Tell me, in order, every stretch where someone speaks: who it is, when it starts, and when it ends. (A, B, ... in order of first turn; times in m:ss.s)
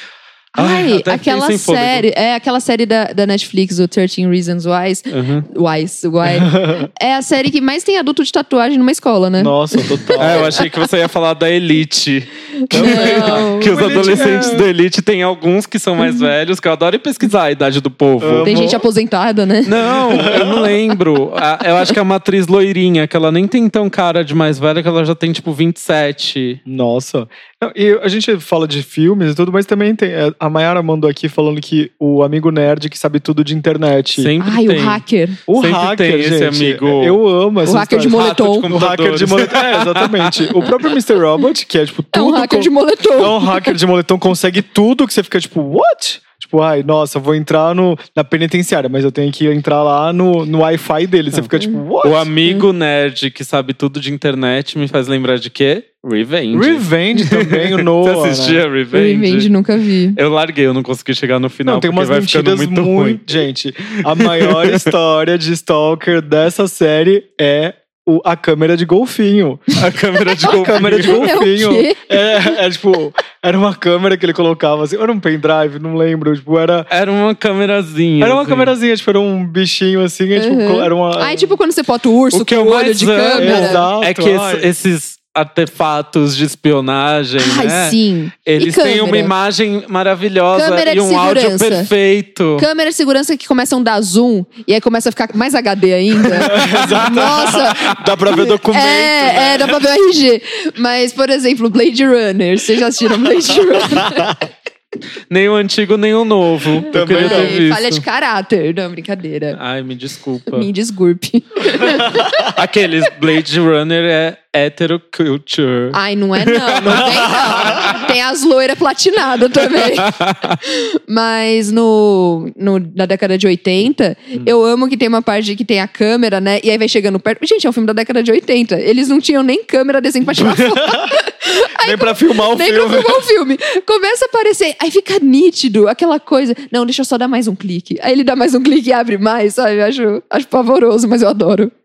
0:00.6-0:10.6 A
0:00.6-0:02.0 B
0:05.1-0:05.5 B
0:06.3-0:06.9 C
0:09.4-0:10.6 C
0:10.2-0:18.7 B
0:12.7-0:14.0 A
0:12.7-0:14.7 C
0:16.0-0:16.3 A
0:18.2-0:18.8 C
0:18.4-0:20.7 A
0:19.6-0:26.6 B
0:20.1-0:20.8 C
0:26.7-0:34.3 C
0:34.2-0:35.0 B
0:34.4-0:35.4 A
0:35.5-0:52.3 C
0:35.5-0:37.2 B
0:37.6-0:38.7 A
0:38.0-0:40.5 B
0:42.1-0:43.7 A
0:52.0-0:59.5 B
0:56.5-0:58.6 C
0:58.9-1:00.2 A
1:00.2-1:03.2 B
1:01.7-1:09.7 C
1:04.1-1:04.9 B
1:09.8-1:11.3 B
1:10.4-1:16.9 C
1:10.4-1:12.6 A
1:16.9-1:18.7 B
1:18.2-1:21.5 C
1:20.4-1:23.8 A
1:22.3-1:32.7 B
1:23.4-1:24.7 C
1:27.4-1:29.3 A
1:30.6-1:31.9 A
1:32.6-1:44.4 A
1:36.4-1:38.0 B
1:36.4-1:39.8 C
1:43.9-1:44.4 C
1:45.3-1:48.0 B
1:46.9-1:47.6 C
1:46.9-1:49.6 A
1:49.5-1:50.7 B
1:50.5-1:52.6 A
1:52.5-1:58.0 B
1:55.9-2:21.7 A
1:57.0-1:57.7 C
1:59.8-2:00.6 B
2:10.4-2:11.1 C
2:11.8-2:13.2 C